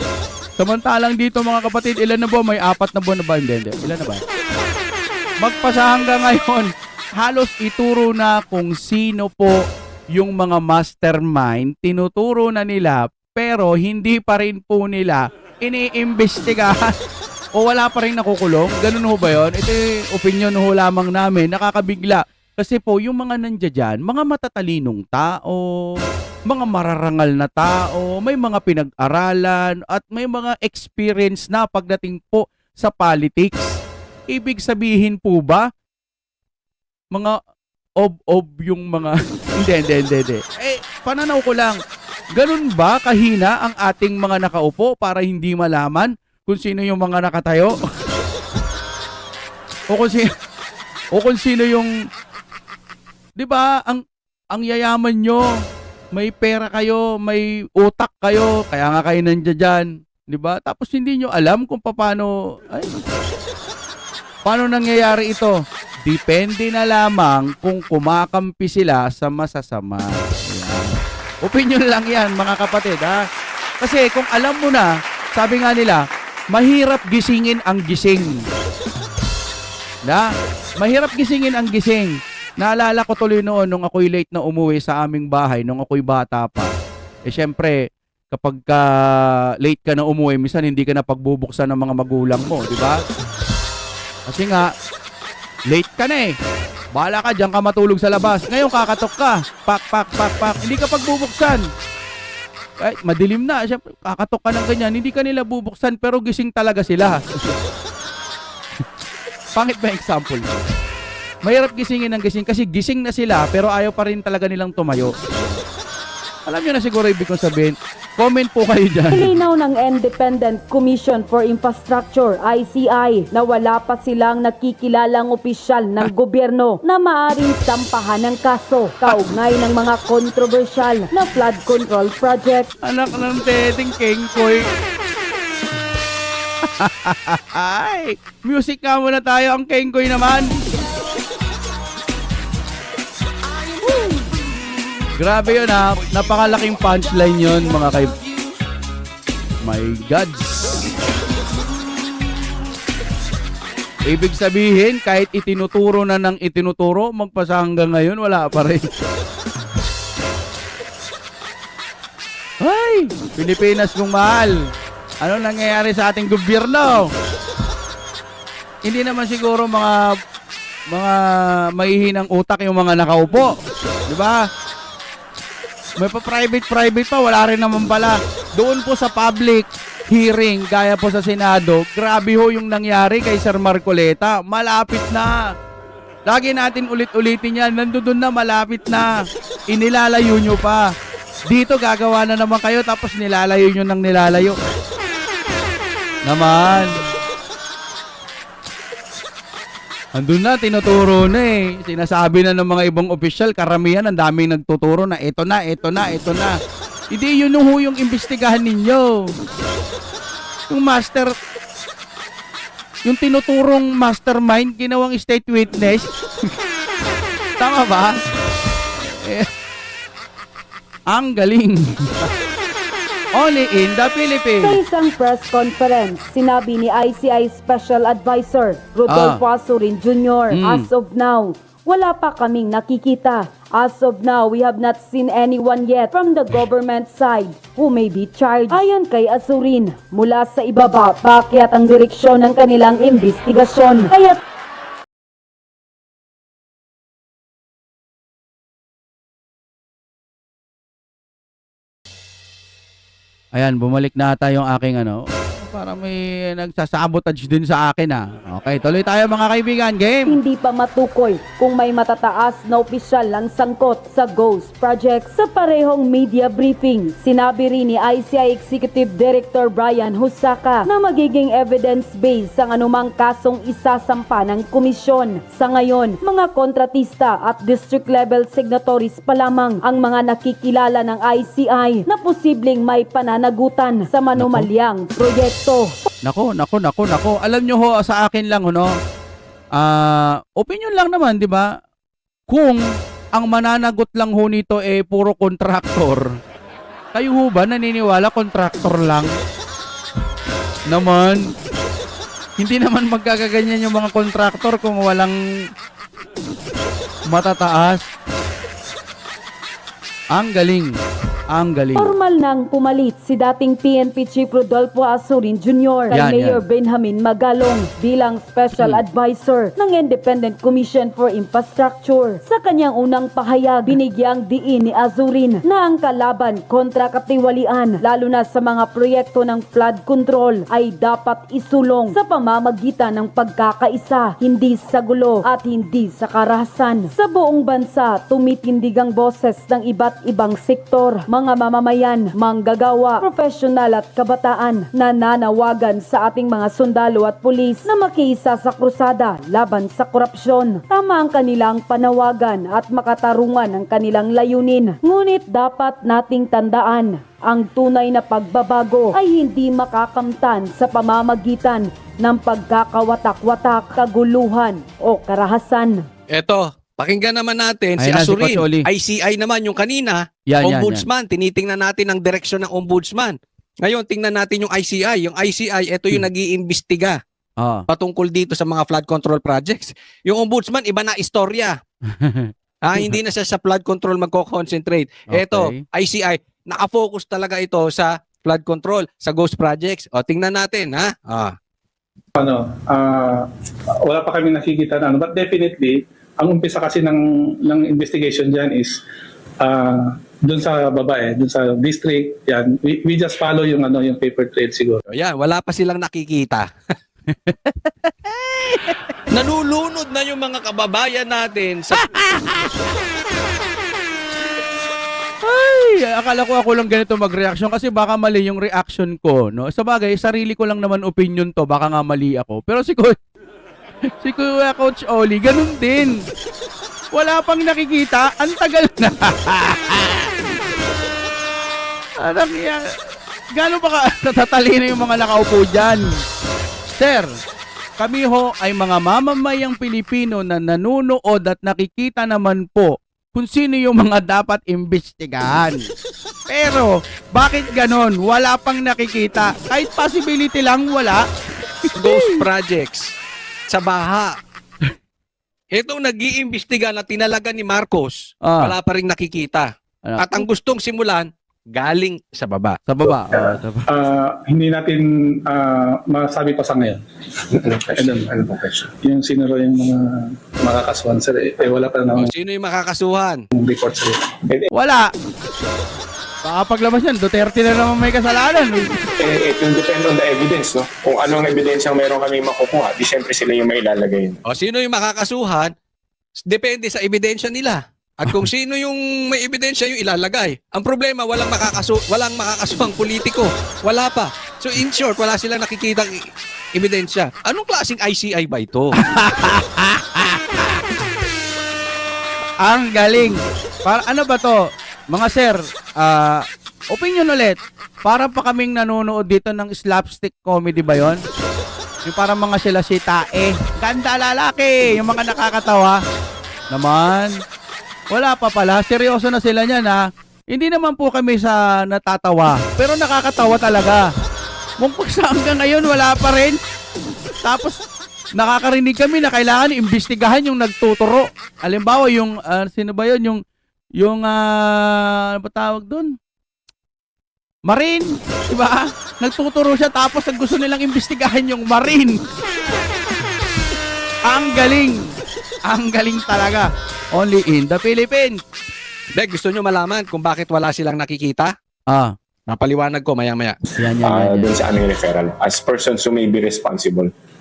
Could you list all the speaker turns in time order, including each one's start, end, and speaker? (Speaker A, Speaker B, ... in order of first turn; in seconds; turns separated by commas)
Speaker A: 0.6-4.2, Speaker A: 5.4-9.5, Speaker A: 10.1-16.9, Speaker A: 17.6-33.8, Speaker A: 34.3-35.6, Speaker A: 38.0-41.8, Speaker A: 42.3-47.7, Speaker A: 49.9-50.3, Speaker A: 51.1-51.9, Speaker A: 53.4-54.0, Speaker A: 54.5-55.5, Speaker A: 56.1-62.9, Speaker A: 64.4-73.2, Speaker A: 73.8-78.3, Speaker A: 80.8-86.7, Speaker A: 87.2-87.8, Speaker A: 88.3-93.0, Speaker A: 94.3-94.7, Speaker A: 95.7-96.3, Speaker A: 96.9-101.6, Speaker A: 102.8-107.2, Speaker A: 109.5-110.5, Speaker A: 111.4-115.6, Speaker A: 116.5-119.3, Speaker B: 119.1-132.7, Speaker A: 132.8-134.6, Speaker A: 136.7-140.5, Speaker A: 145.2-148.1, Speaker A: 149.6-150.8, Speaker A: 154.1-158.8, Speaker A: 162.6-164.6, Speaker A: 165.2-167.1, Speaker A: 168.8-170.0, Speaker A: 170.9-171.2, Speaker A: 171.7-173.5, Speaker A: 174.1-174.4, Speaker A: 176.0-185.3, Speaker A: 186.3-189.1, Speaker A: 189.7-190.9, Speaker A: 191.5-194.6, Speaker A: 196.2-197.1, Speaker A: 200.2-206.5, Speaker A: 207.1-209.2, Speaker A: 210.7-211.3, Speaker A: 213.1-216.1, Speaker A: 217.6-218.1, Speaker A: 219.0-219.5, Speaker A: 221.1-222.3, Speaker A: 223.3-224.8, Speaker B: 224.6-244.4, Speaker A: 229.1-229.4, Speaker A: 230.5-230.8, Speaker A: 253.6-260.3, Speaker B: 260.3-285.9, Speaker A: 284.4-284.7, Speaker A: 286.2-288.9, Speaker A: 289.8-291.7, Speaker A: 292.5-292.8, Speaker A: 293.4-296.3, Speaker A: 297.1-299.3, Speaker A: 300.9-301.4, Speaker A: 302.6-305.4, Speaker A: 307.3-308.1, Speaker A: 310.3-310.9, Speaker A: 311.5-312.1, Speaker B: 311.9-366.1, Speaker A: 316.1-316.6, Speaker C: 366.3-377.2, Speaker A: 368.0-368.9, Speaker A: 370.5-371.1, Speaker A: 377.6-377.9, Speaker C: 377.9-381.8, Speaker A: 382.1-383.1, Speaker C: 382.8-391.5, Speaker A: 385.3-385.8, Speaker D: 392.4-393.5, Speaker D: 394.1-399.0, Speaker D: 399.6-405.0, Speaker C: 405.1-406.7, Speaker A: 407.3-409.1, Speaker C: 409.3-412.1, Speaker A: 412.0-412.9, Speaker A: 415.4-423.1, Speaker A: 424.2-426.1, Speaker A: 427.1-430.3, Speaker A: 432.2-432.8, Speaker A: 433.5-436.0, Speaker A: 437.0-437.3, Speaker A: 438.0-445.8, Speaker A: 446.5-451.2, Speaker A: 451.9-452.4, Speaker C: 452.0-453.0, Speaker C: 453.7-454.3, Speaker C: 455.7-459.7, Speaker A: 458.4-458.7, Speaker A: 460.1-460.4, Speaker C: 460.2-462.8, Speaker A: 462.9-463.8, Speaker D: 463.3-467.0, Speaker E: 467.6-468.7, Speaker D: 467.7-472.3, Speaker C: 472.1-473.4, Speaker D: 473.5-474.2, Speaker A: 474.7-475.0, Speaker A: 476.4-478.9, Speaker E: 479.2-484.4, Speaker C: 484.5-485.7, Speaker C: 486.5-496.1, Speaker C: 496.8-498.9, Speaker A: 499.0-500.8, Speaker A: 502.6-504.6, Speaker A: 505.1-511.2, Speaker A: 512.0-516.0, Speaker A: 516.7-517.3, Speaker A: 518.1-520.0, Speaker A: 520.5-524.0, Speaker A: 524.8-526.6, Speaker A: 527.4-527.8, Speaker A: 528.4-533.4, Speaker A: 534.0-536.1, Speaker A: 537.7-542.2, Speaker A: 544.3-545.1, Speaker A: 545.7-548.4, Speaker C: 549.1-551.5, Speaker C: 552.5-553.5, Speaker A: 553.8-554.6, Speaker E: 554.0-557.1